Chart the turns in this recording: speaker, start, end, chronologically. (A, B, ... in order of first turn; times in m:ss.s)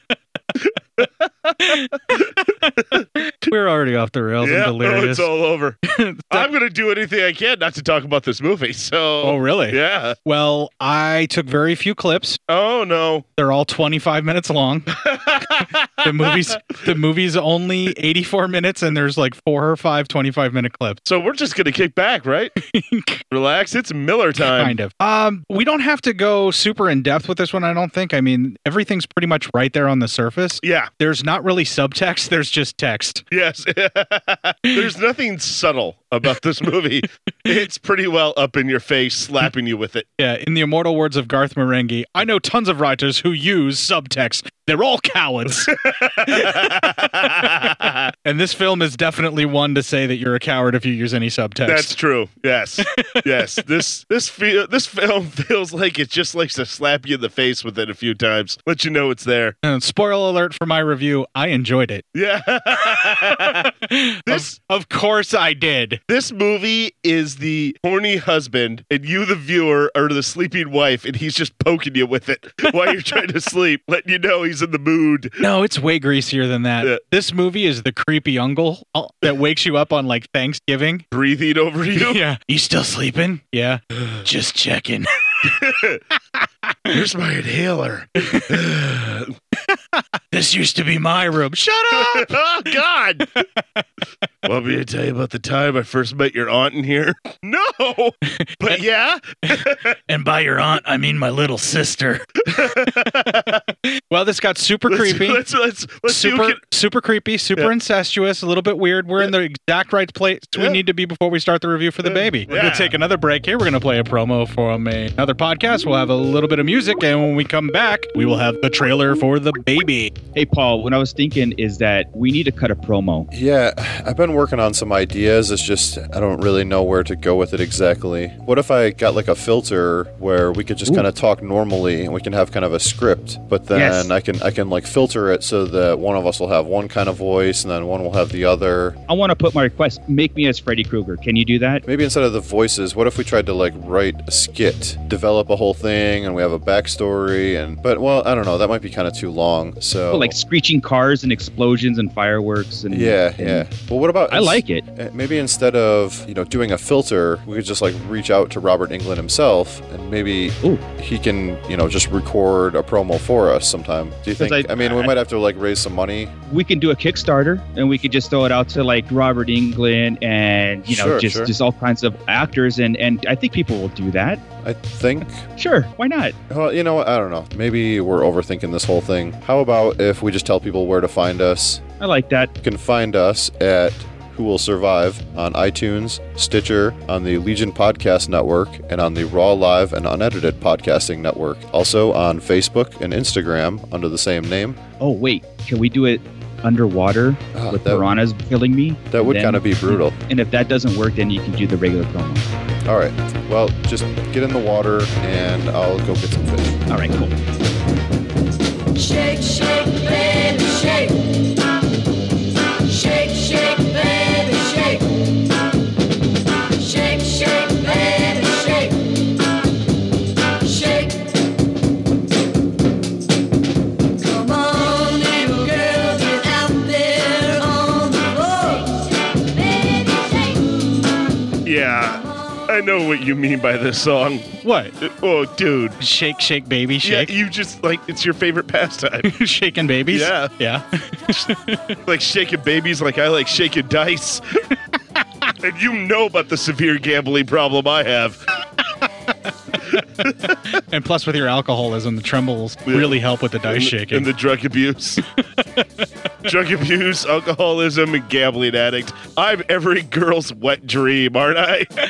0:00.6-0:01.9 A
0:01.7-0:05.3 B
0:04.4-0:05.8 A
0:05.9-0:06.5 B
0:06.3-0:10.2 A
0:09.2-0:12.4 B
0:12.5-0:13.2 A
0:13.4-0:14.9 B
0:14.9-0:16.7 A
0:16.0-0:21.0 B
0:21.1-0:22.5 A
0:22.7-0:23.2 B
0:23.3-0:24.8 A
0:24.4-0:33.2 B
0:30.6-0:30.9 A
0:33.3-0:40.1 A
0:40.2-0:47.1 B
0:45.5-0:48.1 A
0:48.2-0:51.9 B
0:51.7-0:59.6 A
0:59.6-1:02.0 B
1:02.1-1:03.7 A
1:02.9-1:06.0 B
1:04.3-1:04.5 A
1:06.1-1:15.4 A
1:15.4-1:21.0 B
1:21.1-1:22.2 A
1:22.0-1:25.0 B
1:24.0-1:24.2 A
1:25.6-1:26.0 A
1:26.9-1:29.3 A
1:28.2-1:28.6 B
1:30.3-1:32.4 B
1:32.0-1:33.4 A
1:34.4-1:39.9 A
1:38.4-1:38.8 B
1:40.1-1:43.3 B
1:42.5-1:43.6 A
1:44.1-1:45.4 B
1:44.9-1:46.6 A
1:46.1-2:00.1 B
1:52.0-1:52.9 A
2:00.4-2:03.3 C
2:03.3-2:19.0 D
2:13.7-2:14.1 C
2:19.1-2:21.8 C
2:21.9-2:30.4 D
2:30.1-2:33.7 C
2:32.9-2:46.3 D
2:34.3-2:34.8 C
2:44.4-2:45.2 C
2:46.5-2:54.4 C
2:50.9-2:51.5 D
2:54.6-2:55.5 D
2:55.6-2:56.4 C
2:56.5-3:01.8 D
3:02.0-3:02.5 C
3:02.6-3:14.8 D
3:15.0-3:22.4 C
3:17.5-3:18.1 D
3:19.1-3:20.2 D
3:22.8-3:26.8 D
3:26.9-3:27.3 C
3:29.0-3:31.2 E
3:32.9-3:35.0 E
3:36.8-3:39.0 E
3:40.6-3:41.3 E
3:44.2-3:50.9 E
3:51.6-3:54.5 A
3:54.6-3:54.9 B
3:55.0-3:56.0 A
3:56.0-3:57.3 B
3:57.0-3:59.3 A
3:59.2-4:01.9 B
4:00.1-4:00.5 A
4:02.1-4:04.4 A
4:05.6-4:08.4 A
4:10.2-4:10.6 A
4:10.9-4:14.3 B
4:12.9-4:15.2 A
4:15.6-4:15.8 B
4:16.5-4:21.9 A